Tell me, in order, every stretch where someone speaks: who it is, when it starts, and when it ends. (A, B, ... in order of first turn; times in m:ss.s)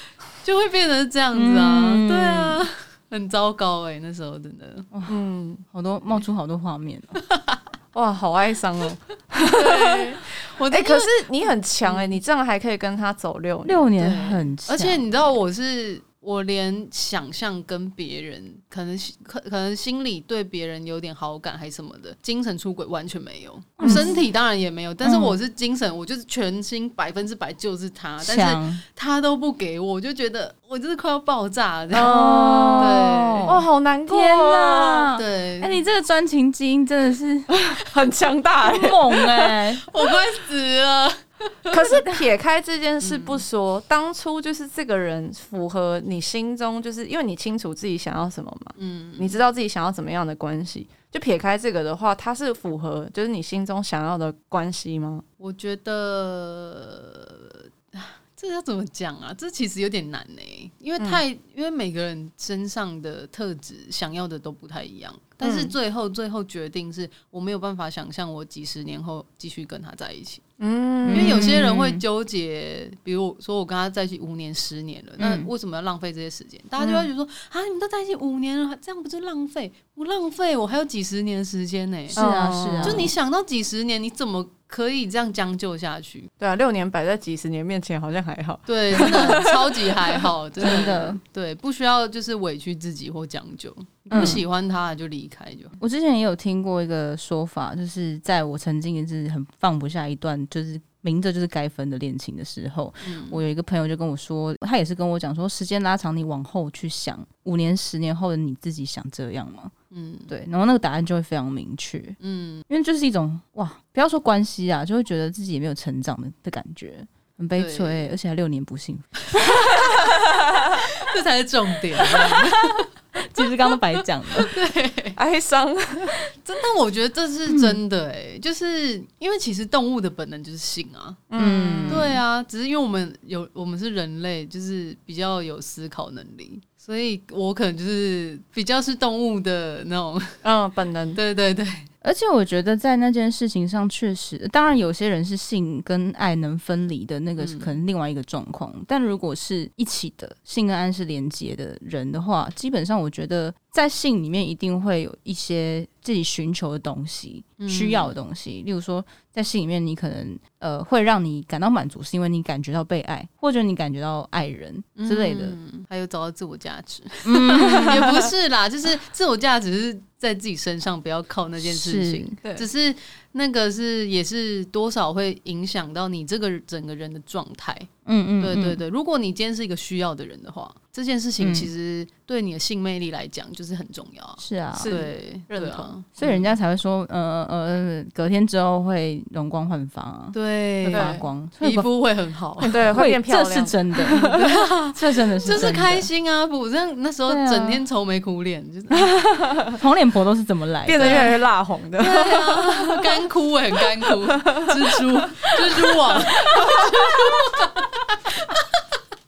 0:00.4-0:04.9 A
0:01.3-0:02.6 B
0:05.1-0:05.6 C
0:05.7-0:07.2 B
0:07.9-0:13.9 C
0:09.5-0:11.3 A
0:11.8-0:12.2 A
0:13.6-0:15.1 B
0:14.0-0:32.1 A
0:23.8-0:24.2 B
0:23.8-0:24.2 C
0:25.0-0:25.4 B
0:28.2-0:28.8 B
0:31.9-0:35.1 C
0:32.0-0:37.5 B
0:32.8-0:33.6 A
0:35.2-0:35.8 A
0:37.5-0:39.4 C
0:38.6-0:39.8 B
0:39.8-0:42.0 A
0:41.7-0:55.2 C
0:43.0-0:43.4 A
0:48.8-0:49.4 A
0:55.4-1:10.4 A
1:05.4-1:05.8 C
1:10.6-1:11.6 C
1:11.1-1:12.0 B
1:11.1-1:22.2 A
1:15.2-1:15.5 B
1:16.8-1:17.1 C
1:22.1-1:23.1 B
1:22.1-1:23.1 C
1:22.8-1:26.3 A
1:26.4-1:30.9 C
1:28.7-1:35.8 A
1:30.6-1:31.2 B
1:34.1-1:34.4 C
1:34.1-1:34.4 B
1:35.8-1:49.7 B
1:43.0-1:43.4 A
1:49.9-1:50.3 A
1:50.3-1:52.2 B
1:52.2-1:52.6 A
1:52.7-2:00.0 B
1:57.6-1:58.1 A
1:59.6-2:00.0 A
2:00.8-2:02.9 A
2:03.2-2:04.5 B
2:04.3-2:05.2 A
2:05.2-2:06.2 C
2:06.4-2:11.2 A
2:07.5-2:07.8 B
2:11.3-2:12.2 C
2:11.4-2:12.2 B
2:11.9-2:20.4 A
2:20.4-2:21.2 C
2:21.2-2:21.9 A
2:22.0-2:45.6 B
2:27.4-2:27.7 A
2:37.6-2:38.2 A
2:45.0-2:57.9 A
2:47.2-2:48.0 B
2:47.9-2:48.2 C
2:51.6-2:52.4 B
2:58.1-2:58.8 B
2:58.4-3:06.5 A
3:01.4-3:01.7 B
3:04.4-3:05.0 B
3:04.8-3:05.9 C
3:06.2-3:11.9 B
3:10.3-3:12.9 A
3:10.9-3:11.2 C
3:12.7-3:14.4 B
3:12.7-3:14.6 C
3:14.2-3:19.1 A
3:14.9-3:16.1 B
3:17.3-3:17.8 B
3:19.0-3:19.8 C
3:19.8-3:21.3 B
3:20.9-3:23.1 C
3:21.0-3:21.4 A
3:22.0-3:27.7 A
3:24.1-3:26.9 C
3:26.5-3:26.8 B